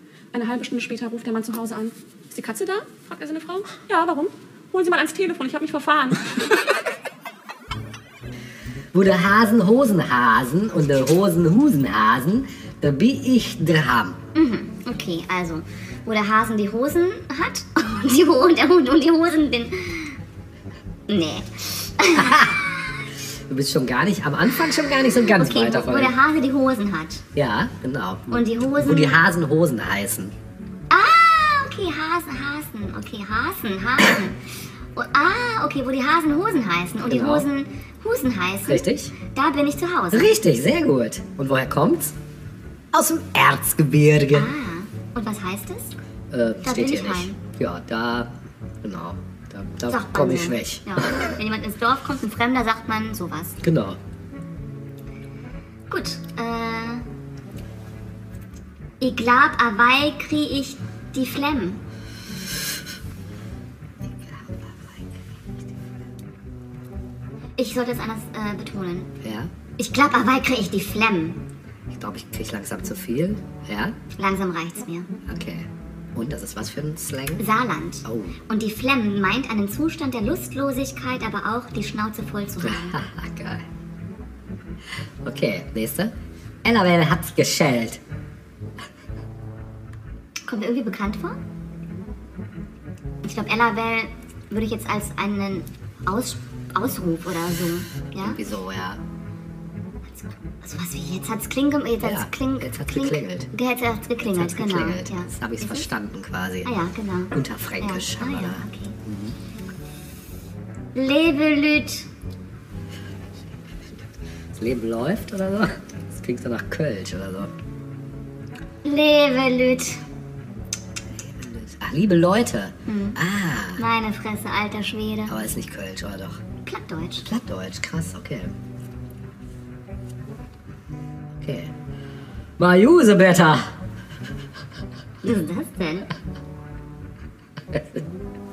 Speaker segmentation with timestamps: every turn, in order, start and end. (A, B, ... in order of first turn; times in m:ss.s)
0:00.3-0:06.2 A
0:08.9-0:14.2 B
0:14.4-0:20.2 C
0:21.1-0:23.0 C
0:22.1-0:22.6 B
0:23.5-0:26.2 B
0:24.8-0:27.2 C
0:27.4-0:30.3 B
0:28.3-0:29.2 C
0:30.9-0:40.4 C
0:37.1-0:37.5 B
0:38.7-0:39.1 B
0:40.1-0:42.2 B
0:42.9-0:44.5 B
0:44.3-0:46.0 C
0:46.3-0:48.3 B
0:46.6-0:47.4 C
0:48.8-0:51.3 B
0:49.9-0:53.6 C
0:53.6-0:54.0 B
0:55.9-0:57.0 C
0:59.0-1:01.8 C
1:04.1-1:05.1 B
1:07.6-1:09.1 C
1:09.2-1:09.5 B
1:09.8-1:11.4 C
1:11.9-1:14.0 B
1:14.1-1:15.1 C
1:15.2-1:17.5 B
1:17.4-1:23.0 C
1:18.0-1:18.4 B
1:22.6-1:23.6 B
1:25.2-1:28.0 B
1:30.5-1:31.4 C
1:33.2-1:38.4 C
1:38.2-1:39.0 B
1:40.1-1:45.9 C
1:42.0-1:43.5 B
1:44.2-1:46.7 B
1:46.6-1:49.0 C
1:47.3-1:49.4 B
1:51.0-1:52.1 C
1:54.6-1:57.6 B
1:58.8-2:00.0 C
2:01.2-2:03.8 B
2:02.9-2:03.2 C
2:03.8-2:05.4 C
2:05.3-2:06.4 B
2:06.6-2:07.3 C
2:07.2-2:08.5 B
2:11.4-2:11.7 B
2:12.6-2:13.8 B
2:15.2-2:16.1 C
2:17.7-2:18.0 B